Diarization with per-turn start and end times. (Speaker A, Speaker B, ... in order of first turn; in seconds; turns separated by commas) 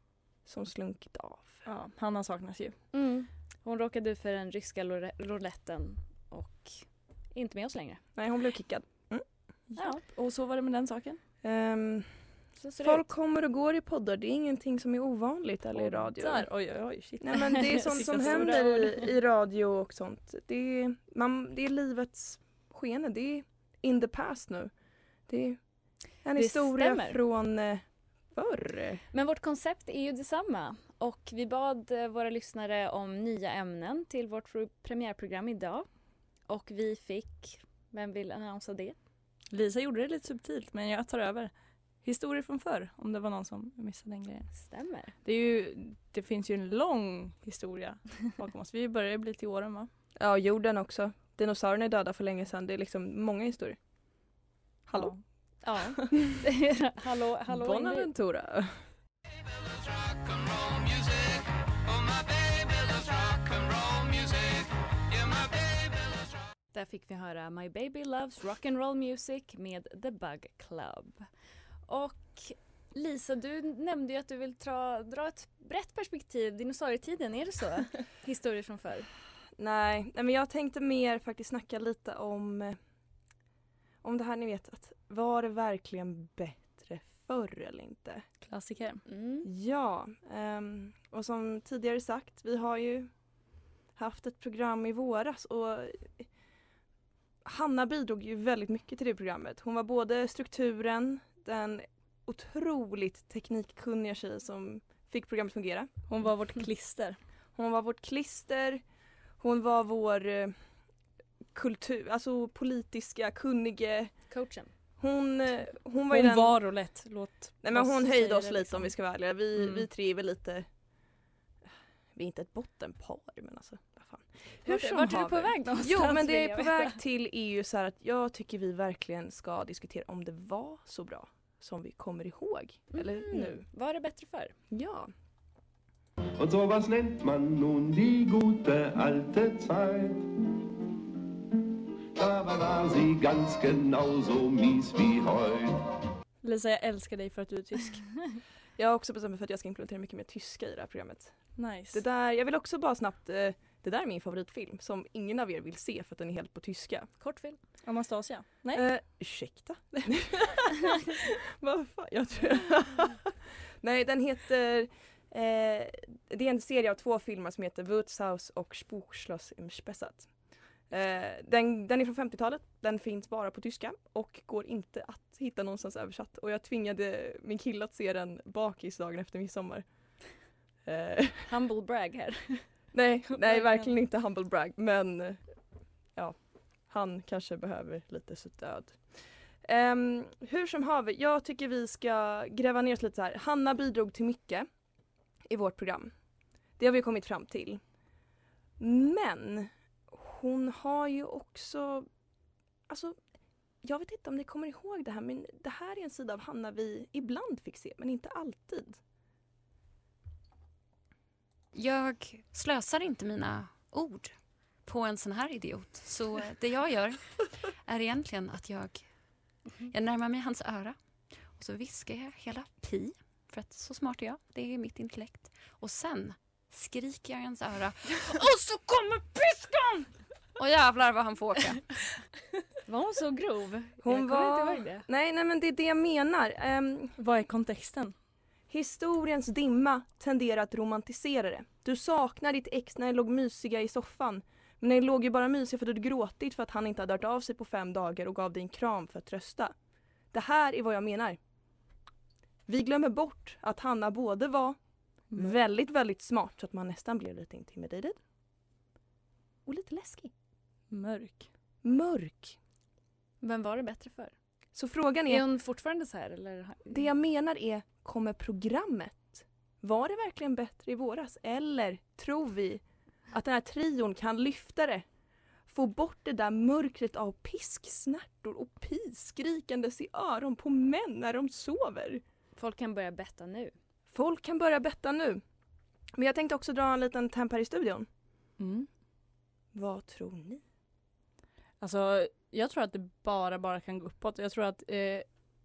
Speaker A: 0.5-1.6, Speaker B: 1.6-2.7, Speaker C: 2.9-8.0, Speaker A: 8.2-9.2, Speaker B: 9.7-11.2, Speaker A: 11.4-12.1, Speaker C: 12.6-13.1, Speaker A: 12.8-16.5, Speaker B: 15.7-18.9, Speaker A: 17.2-24.7, Speaker C: 17.4-18.6, Speaker A: 25.3-25.6, Speaker A: 26.2-29.0, Speaker C: 26.4-27.2, Speaker C: 29.1-35.9, Speaker C: 36.5-39.0, Speaker B: 39.5-41.5, Speaker B: 42.0-44.5, Speaker C: 44.5-45.1, Speaker B: 45.2-49.9, Speaker A: 50.2-53.8, Speaker A: 54.9-55.1, Speaker B: 54.9-55.2, Speaker C: 55.6-58.1, Speaker A: 57.5-58.8, Speaker C: 66.7-71.2, Speaker C: 71.9-79.1, Speaker A: 79.6-82.8, Speaker A: 84.0-88.2, Speaker B: 88.4-89.0, Speaker C: 89.1-89.5, Speaker A: 89.4-93.1, Speaker A: 94.0-96.2, Speaker A: 97.4-105.9, Speaker B: 106.1-107.2, Speaker A: 107.5-108.8, Speaker A: 109.4-110.5, Speaker A: 111.5-114.1, Speaker C: 114.3-114.7, Speaker A: 115.0-116.6, Speaker B: 116.1-118.8, Speaker A: 117.6-120.7, Speaker A: 122.2-133.6, Speaker C: 124.7-127.0, Speaker C: 132.9-134.5, Speaker A: 134.7-135.1, Speaker D: 136.4-140.3, Speaker D: 142.1-145.8, Speaker B: 146.4-148.2, Speaker A: 148.8-151.3, Speaker B: 151.6-152.0, Speaker A: 151.9-157.1, Speaker C: 157.2-157.6, Speaker B: 157.8-158.8, Speaker A: 158.7-163.3, Speaker A: 163.8-170.3, Speaker A: 170.9-180.3, Speaker A: 180.8-181.5, Speaker C: 181.4-182.7, Speaker A: 182.9-185.4, Speaker B: 183.5-183.8, Speaker A: 186.9-189.1, Speaker A: 189.6-194.7, Speaker A: 195.5-196.1, Speaker A: 196.8-197.8, Speaker A: 198.8-202.1, Speaker A: 202.9-203.2, Speaker A: 203.8-209.0, Speaker E: 211.7-214.3, Speaker E: 214.8-217.2, Speaker E: 217.8-219.0, Speaker E: 219.9-220.9, Speaker E: 221.5-231.9, Speaker C: 232.9-235.0, Speaker A: 234.0-237.1, Speaker B: 237.2-238.1, Speaker A: 238.7-249.7, Speaker A: 250.3-251.4, Speaker A: 252.7-254.8, Speaker A: 255.3-258.2, Speaker A: 259.6-260.3, Speaker B: 260.9-261.5, Speaker A: 261.8-262.6, Speaker C: 263.4-264.3, Speaker A: 264.7-265.4, Speaker C: 265.3-267.0, Speaker A: 266.9-275.0, Speaker A: 275.7-282.2, Speaker C: 282.6-283.7, Speaker A: 284.1-285.4, Speaker A: 286.1-288.1, Speaker B: 288.6-288.9, Speaker A: 289.7-290.6, Speaker B: 291.8-295.2